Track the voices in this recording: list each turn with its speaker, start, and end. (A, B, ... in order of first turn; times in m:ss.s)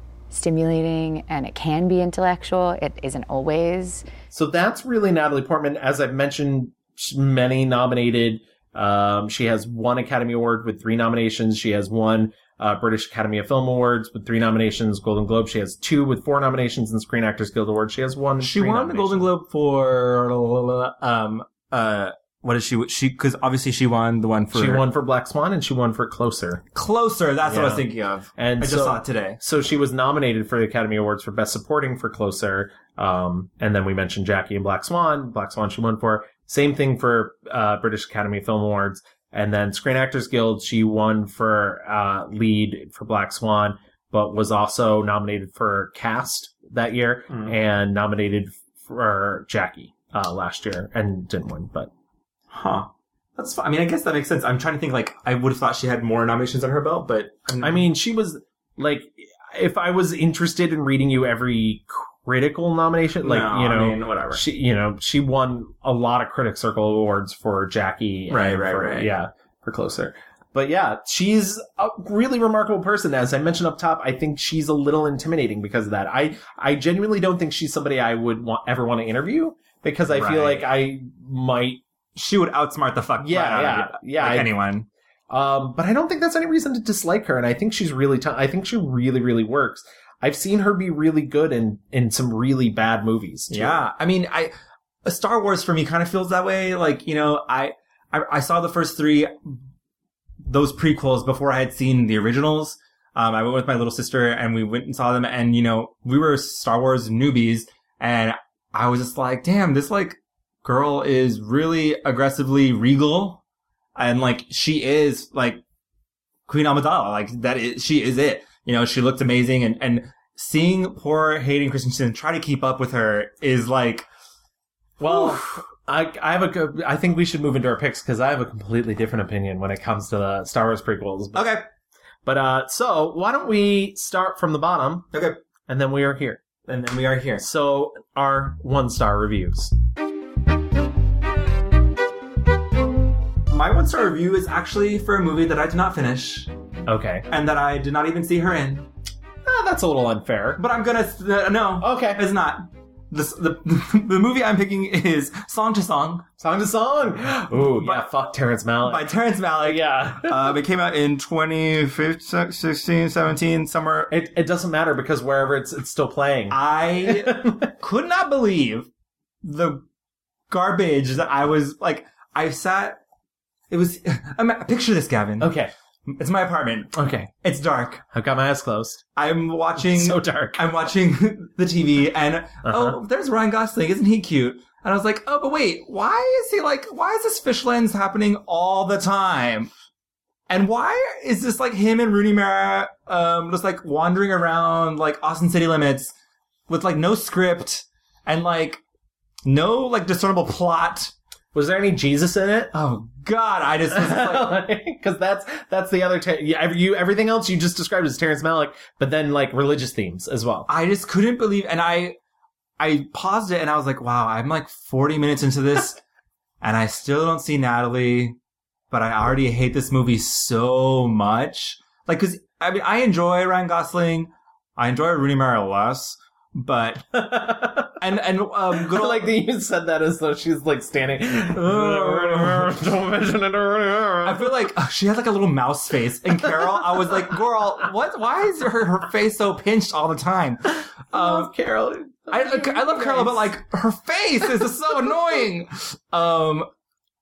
0:00.3-0:04.1 A
0:04.3-0:19.3 B
0:18.4-0:24.8 C
0:24.5-0:26.6 B
0:26.7-0:29.4 C
0:27.4-0:51.9 B
0:52.5-0:57.8 C
0:57.6-1:21.8 B
1:03.2-1:04.4 C
1:08.3-1:09.1 C
1:20.1-1:20.7 C
1:22.2-1:24.9 C
1:23.2-1:24.5 B
1:25.3-1:33.8 B
1:33.5-1:34.5 C
1:35.0-1:39.6 C
1:40.4-1:53.4 C
1:54.0-1:55.6 C
1:56.5-2:04.0 C
2:05.0-2:11.6 B
2:05.0-2:05.6 C
2:11.3-2:11.6 C
2:12.2-2:15.1 B
2:15.1-2:15.4 C
2:15.7-2:16.5 B
2:16.6-2:17.4 C
2:17.4-2:19.7 B
2:23.5-2:26.5 C
2:26.9-2:27.3 B
2:27.3-2:28.9 C
2:29.4-2:30.6 B
2:30.6-2:36.2 C
2:31.8-2:32.2 B
2:36.4-2:40.6 B
2:37.8-2:38.1 C
2:38.8-2:44.1 C
2:44.1-2:47.7 B
2:46.5-2:48.9 C
2:49.4-2:49.8 C
2:50.5-2:53.0 C
2:53.7-2:55.5 C
2:55.4-2:55.7 B
2:56.1-2:58.0 C
2:56.9-2:57.3 B
2:58.1-2:59.0 B
2:59.2-3:09.7 C
2:59.8-3:00.7 B
3:02.6-3:03.0 B
3:10.5-3:16.1 C
3:16.7-3:18.8 C
3:19.4-3:21.1 C
3:21.5-3:22.7 B
3:22.7-3:24.6 C
3:23.9-3:30.7 B
3:30.7-3:32.2 C
3:32.8-3:36.0 C
3:36.6-3:38.4 C
3:38.9-3:47.1 C
3:47.1-3:48.0 B
3:48.0-3:49.3 C
3:48.7-3:54.7 B
3:51.5-3:52.7 C
3:54.2-4:01.5 C
3:56.5-3:57.2 B
4:01.1-4:03.5 B
4:02.3-4:06.7 C
4:04.6-4:04.9 B